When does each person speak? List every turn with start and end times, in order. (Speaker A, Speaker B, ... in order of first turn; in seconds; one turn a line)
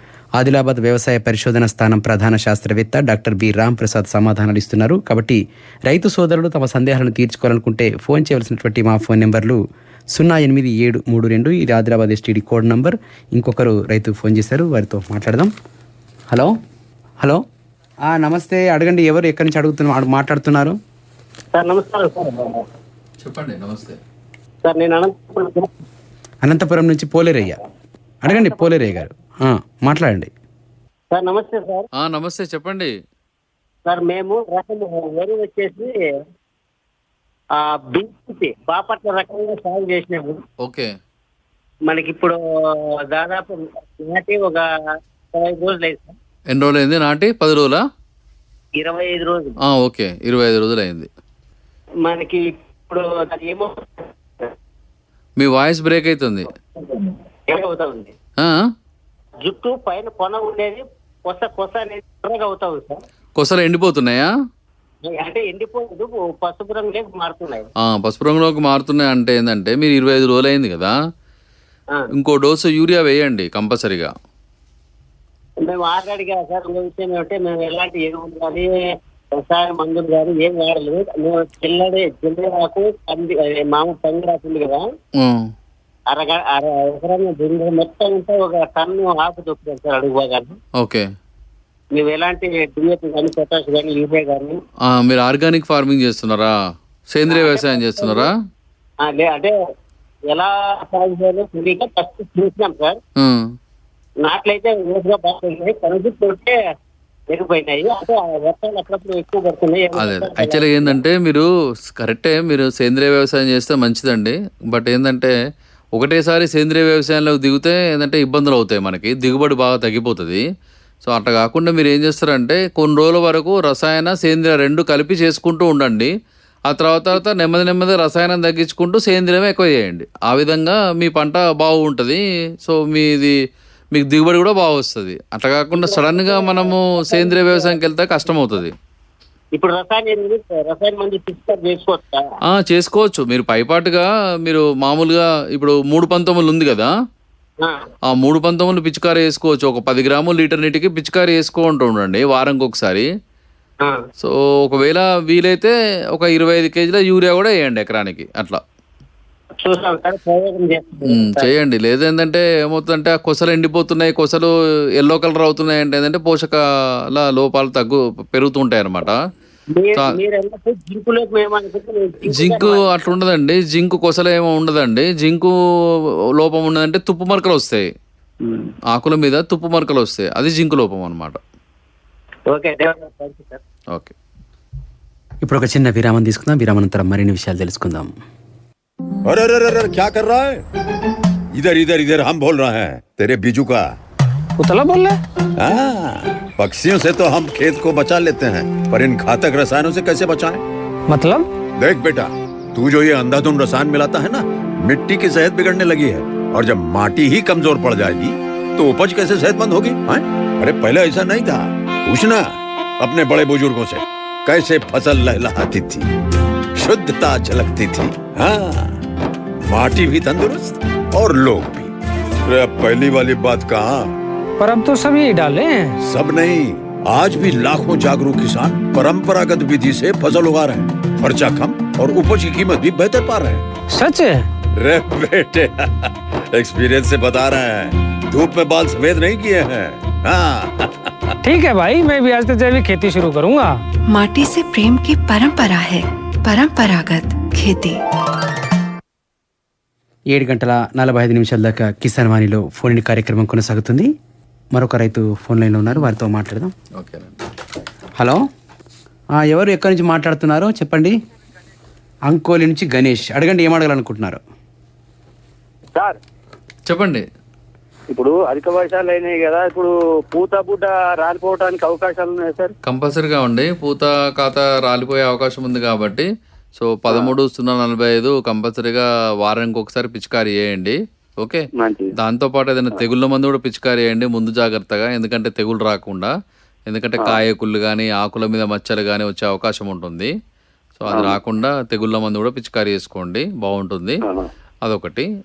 Speaker A: 0.4-9.6
Speaker A: 10.1-15.5
Speaker A: 18.1-20.8
Speaker B: 21.5-22.6
Speaker C: 23.2-24.0
Speaker B: 24.6-25.7
Speaker A: 26.4-27.6
Speaker A: 28.2-30.3
Speaker B: 28.3-29.0
Speaker B: 31.1-31.9
Speaker C: 32.0-32.9
Speaker B: 33.9-35.9
Speaker B: 37.5-40.4
Speaker C: 40.6-40.9
Speaker B: 41.9-44.7
Speaker B: 45.3-46.1
Speaker C: 46.5-47.8
Speaker B: 48.8-49.5
Speaker C: 49.6-51.1
Speaker B: 52.0-54.5
Speaker C: 55.4-56.5
Speaker B: 56.8-58.1
Speaker C: 58.4-58.6
Speaker B: 59.4-63.0
Speaker C: 63.4-64.3
Speaker B: 65.0-67.7
Speaker C: 67.8-71.0
Speaker C: 72.1-74.1
Speaker B: 75.6-78.7
Speaker B: 79.3-84.9
Speaker C: 85.2-85.5
Speaker B: 86.1-90.6
Speaker C: 90.8-91.1
Speaker B: 91.9-94.6
Speaker C: 94.8-96.5
Speaker C: 97.1-98.3
Speaker B: 97.3-98.3
Speaker B: 99.0-99.5
Speaker B: 100.3-103.0
Speaker C: 103.2-103.5
Speaker B: 104.2-106.6
Speaker B: 107.3-111.0
Speaker C: 110.0-115.3
Speaker C: 116.0-120.4
Speaker C: 121.0-126.1
Speaker C: 126.7-133.3
Speaker C: 133.9-138.7
Speaker B: 135.7-137.8
Speaker B: 139.5-142.2
Speaker C: 142.5-146.9
Speaker B: 147.6-147.9
Speaker C: 148.1-153.1
Speaker C: 154.2-158.6
Speaker B: 159.6-161.5
Speaker C: 161.1-169.2
Speaker B: 169.7-172.9
Speaker C: 172.3-175.6
Speaker C: 176.4-177.9
Speaker D: 178.4-178.7
Speaker C: 178.9-181.4
Speaker B: 182.5-183.6
Speaker A: 185.4-188.1
Speaker E: 189.2-190.6
Speaker E: 191.5-193.9
Speaker F: 194.6-195.2
Speaker E: 195.6-200.6
Speaker F: 201.1-201.5
Speaker E: 201.8-216.1
Speaker E: 216.8-219.0
Speaker E: 219.7-224.1
Speaker F: 224.6-226.0
Speaker E: 226.0-233.6
Speaker F: 233.9-234.4
Speaker E: 234.8-241.3
Speaker F: 241.4-243.8
Speaker G: 244.1-248.0
Speaker A: 250.3-254.1
Speaker A: 254.7-256.7
Speaker C: 257.0-257.4
Speaker A: 258.2-258.4
Speaker A: 259.4-261.1
Speaker A: 262.3-264.4
Speaker C: 266.9-267.2
Speaker D: 268.1-272.7
Speaker C: 272.9-286.3
Speaker D: 277.1-277.3
Speaker D: 281.8-282.1
Speaker C: 286.9-290.3
Speaker C: 291.0-294.2
Speaker D: 291.1-291.4
Speaker D: 294.2-294.5
Speaker C: 294.9-295.3